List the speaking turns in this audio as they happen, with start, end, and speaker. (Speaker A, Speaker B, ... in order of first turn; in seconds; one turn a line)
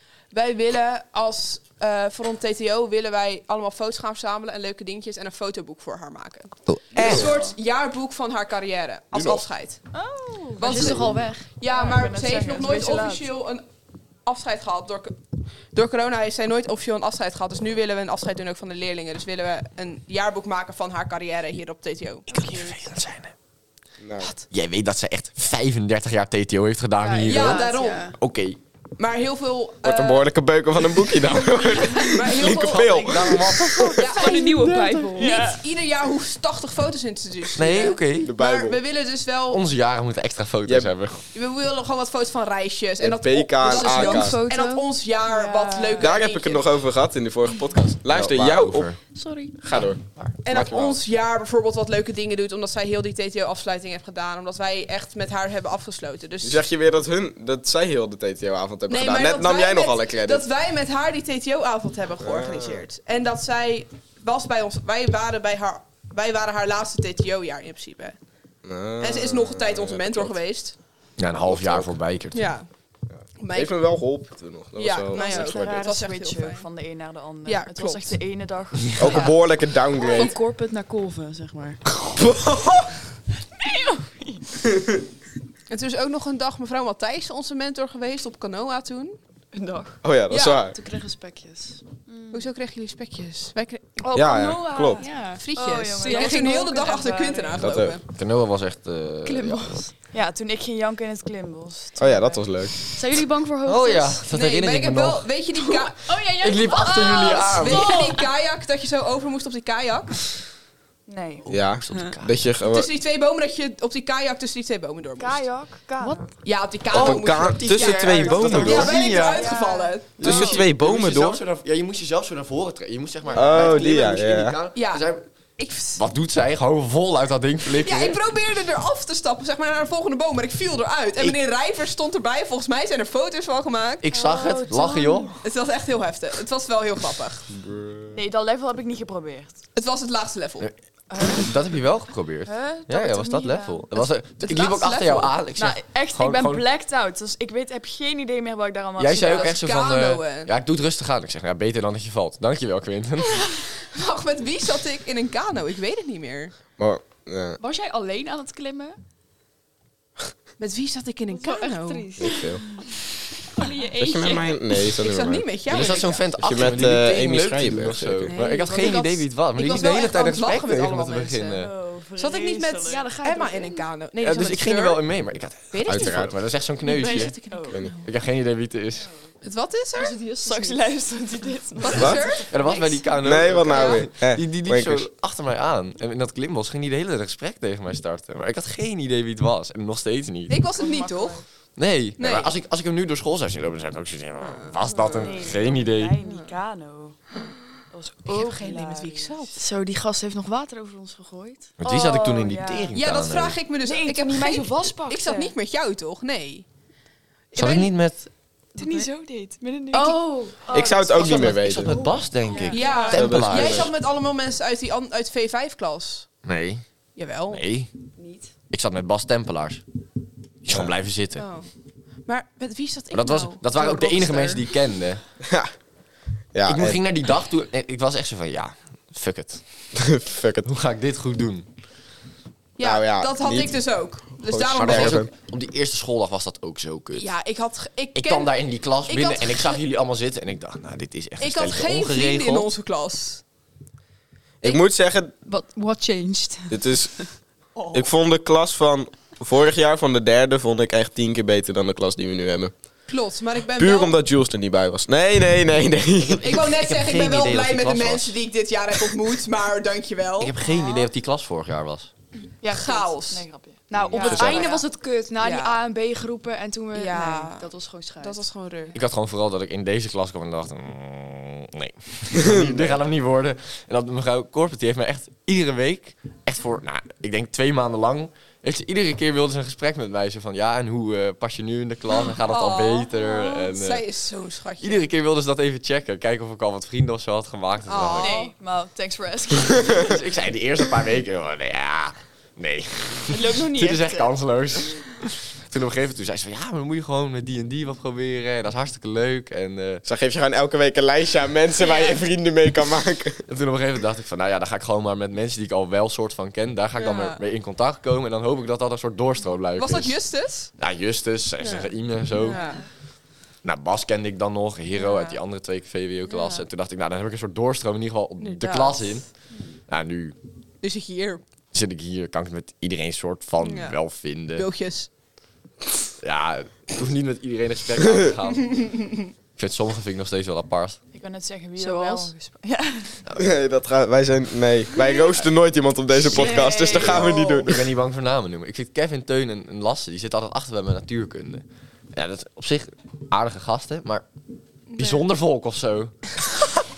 Speaker A: 0.3-9.9
Speaker B: 6.7-7.2
Speaker C: 7.0-7.3
Speaker C: 9.1-9.5
Speaker D: 9.9-10.9
Speaker E: 10.4-11.6
Speaker A: 10.6-13.7
Speaker D: 11.7-13.3
Speaker A: 14.2-15.2
Speaker A: 15.7-22.3
Speaker B: 22.3-23.3
Speaker C: 24.0-24.3
Speaker B: 24.5-27.6
Speaker E: 27.0-28.2
Speaker D: 27.2-27.7
Speaker A: 27.3-28.1
Speaker B: 28.2-28.6
Speaker A: 29.0-30.3
Speaker C: 29.8-34.0
Speaker A: 32.0-33.4
Speaker B: 32.9-33.9
Speaker E: 33.7-35.6
Speaker A: 34.0-34.5
Speaker D: 34.1-35.6
Speaker A: 35.1-39.6
Speaker B: 37.6-38.3
Speaker C: 38.1-38.8
Speaker B: 39.5-41.2
Speaker C: 40.7-40.9
Speaker A: 41.3-46.7
Speaker C: 43.0-44.4
Speaker E: 43.6-46.1
Speaker C: 46.0-48.9
Speaker B: 48.1-49.0
Speaker E: 49.1-49.6
Speaker C: 49.6-51.0
Speaker A: 50.4-56.6
Speaker C: 56.4-60.5
Speaker A: 58.9-68.2
Speaker C: 62.2-62.8
Speaker C: 68.6-70.4
Speaker A: 69.0-70.8
Speaker B: 71.2-72.4
Speaker C: 71.5-71.9
Speaker A: 72.3-72.7
Speaker A: 73.4-73.8
Speaker C: 73.5-75.8
Speaker A: 74.8-76.7
Speaker D: 75.1-79.4
Speaker A: 77.5-78.1
Speaker C: 79.0-80.4
Speaker E: 80.0-81.8
Speaker C: 82.2-82.9
Speaker D: 83.6-84.5
Speaker A: 85.7-89.2
Speaker D: 89.5-90.0
Speaker C: 90.0-90.8
Speaker A: 90.3-90.6
Speaker E: 90.7-91.8
Speaker A: 92.3-94.0
Speaker D: 94.0-97.6
Speaker C: 94.1-95.0
Speaker E: 94.8-97.4
Speaker A: 95.3-98.0
Speaker C: 97.6-98.0
Speaker B: 98.1-99.8
Speaker E: 99.2-99.9
Speaker D: 100.1-102.5
Speaker C: 102.0-102.8
Speaker E: 103.0-104.2
Speaker B: 103.7-105.4
Speaker A: 104.3-106.0
Speaker E: 106.1-108.2
Speaker D: 106.2-107.9
Speaker B: 106.4-108.0
Speaker A: 107.5-110.2
Speaker D: 111.1-111.5
Speaker B: 111.5-112.4
Speaker C: 111.5-112.9
Speaker A: 112.6-115.5
Speaker D: 115.2-116.2
Speaker E: 116.0-116.3
Speaker A: 116.4-120.5
Speaker C: 116.9-119.0
Speaker B: 116.9-119.5
Speaker D: 118.5-120.3
Speaker B: 120.2-125.2
Speaker C: 120.2-121.4
Speaker C: 123.3-124.6
Speaker A: 124.8-126.0
Speaker B: 126.0-128.2
Speaker A: 127.8-134.1
Speaker B: 134.0-135.4
Speaker D: 134.1-135.3
Speaker A: 135.4-137.5
Speaker C: 137.5-138.2
Speaker D: 138.1-139.6
Speaker A: 139.8-140.7
Speaker B: 140.6-146.6
Speaker D: 141.1-141.7
Speaker D: 142.5-143.8
Speaker A: 144.0-145.3
Speaker D: 145.6-149.5
Speaker B: 149.0-153.6
Speaker A: 149.2-150.5
Speaker A: 153.6-156.6
Speaker C: 156.8-157.6
Speaker E: 157.6-158.9
Speaker D: 157.7-158.8
Speaker A: 160.6-162.1
Speaker E: 161.4-162.6
Speaker C: 162.2-162.6
Speaker E: 163.6-164.5
Speaker D: 163.6-164.3
Speaker C: 164.0-168.3
Speaker A: 165.0-166.3
Speaker B: 165.7-171.7
Speaker A: 168.3-171.7
Speaker D: 171.6-173.2
Speaker A: 172.2-175.1
Speaker E: 172.8-173.8
Speaker B: 174.2-177.4
Speaker A: 175.7-176.2
Speaker C: 175.9-176.4
Speaker A: 176.8-178.1
Speaker E: 177.1-177.7
Speaker D: 177.1-177.8
Speaker B: 178.0-179.1
Speaker A: 179.4-180.2
Speaker D: 180.1-182.8
Speaker E: 180.1-180.8
Speaker A: 181.8-182.5
Speaker B: 182.5-190.6
Speaker C: 183.2-185.1
Speaker A: 183.7-184.0
Speaker A: 190.5-191.4
Speaker D: 190.8-191.4
Speaker B: 191.8-196.2
Speaker A: 192.2-192.5
Speaker A: 194.5-195.5
Speaker D: 195.1-199.6
Speaker A: 196.2-196.5
Speaker A: 198.2-199.6
Speaker E: 199.6-201.6
Speaker D: 200.9-201.2
Speaker D: 201.8-202.9
Speaker B: 201.8-203.6
Speaker A: 202.9-206.7
Speaker D: 203.8-205.5
Speaker A: 207.5-207.9
Speaker B: 207.5-208.3
Speaker E: 208.8-209.1
Speaker D: 208.8-213.1
Speaker E: 209.9-211.2
Speaker C: 210.7-212.0
Speaker B: 211.2-213.9
Speaker E: 212.5-213.1
Speaker A: 212.7-216.3
Speaker C: 213.1-213.9
Speaker B: 216.4-216.8
Speaker A: 217.2-217.6
Speaker B: 217.5-217.9
Speaker D: 218.2-218.5
Speaker B: 218.7-219.8
Speaker B: 220.6-221.4
Speaker A: 221.4-221.7
Speaker A: 222.3-224.7
Speaker B: 223.1-225.2
Speaker C: 225.4-225.7
Speaker C: 226.5-227.0
Speaker B: 226.7-229.6
Speaker C: 230.0-230.7
Speaker B: 230.7-231.7
Speaker A: 232.8-235.2
Speaker C: 232.8-235.3
Speaker B: 234.8-237.3
Speaker A: 237.2-238.5
Speaker B: 238.2-242.7
Speaker A: 239.1-239.8
Speaker A: 241.4-243.4
Speaker C: 244.6-245.3
Speaker E: 245.5-246.8
Speaker C: 246.7-247.1
Speaker A: 247.8-248.1
Speaker C: 247.9-252.8
Speaker A: 253.1-254.2
Speaker C: 253.8-256.4
Speaker B: 256.3-258.4
Speaker A: 256.4-260.5
Speaker B: 260.4-262.1
Speaker D: 260.7-261.1
Speaker D: 262.6-264.8
Speaker A: 262.7-263.4
Speaker E: 263.9-268.4
Speaker C: 264.0-264.6
Speaker A: 264.2-264.9
Speaker A: 265.4-265.8
Speaker A: 266.9-267.7
Speaker A: 268.2-269.0
Speaker B: 268.9-284.0
Speaker C: 272.3-273.0
Speaker A: 282.5-285.1
Speaker B: 284.8-288.3
Speaker A: 287.9-288.5
Speaker D: 288.1-290.2
Speaker B: 289.8-300.0
Speaker D: 293.3-294.4
Speaker C: 300.1-303.4
Speaker A: 301.8-302.2
Speaker B: 303.5-310.2
Speaker A: 307.0-307.4
Speaker A: 309.8-310.7
Speaker B: 310.7-312.6
Speaker A: 311.6-312.8
Speaker B: 313.6-319.3
Speaker A: 314.9-315.4
Speaker A: 316.3-316.7
Speaker A: 318.4-319.2
Speaker B: 319.9-320.4
Speaker A: 320.8-321.4
Speaker B: 321.7-324.7
Speaker A: 323.6-324.0
Speaker A: 324.5-325.1
Speaker B: 326.2-329.0
Speaker A: 328.7-329.1
Speaker B: 329.6-331.0
Speaker D: 331.1-333.2
Speaker E: 331.8-332.6
Speaker C: 333.4-337.9
Speaker D: 336.3-337.6
Speaker B: 336.3-344.2
Speaker A: 344.9-345.2
Speaker B: 345.0-346.5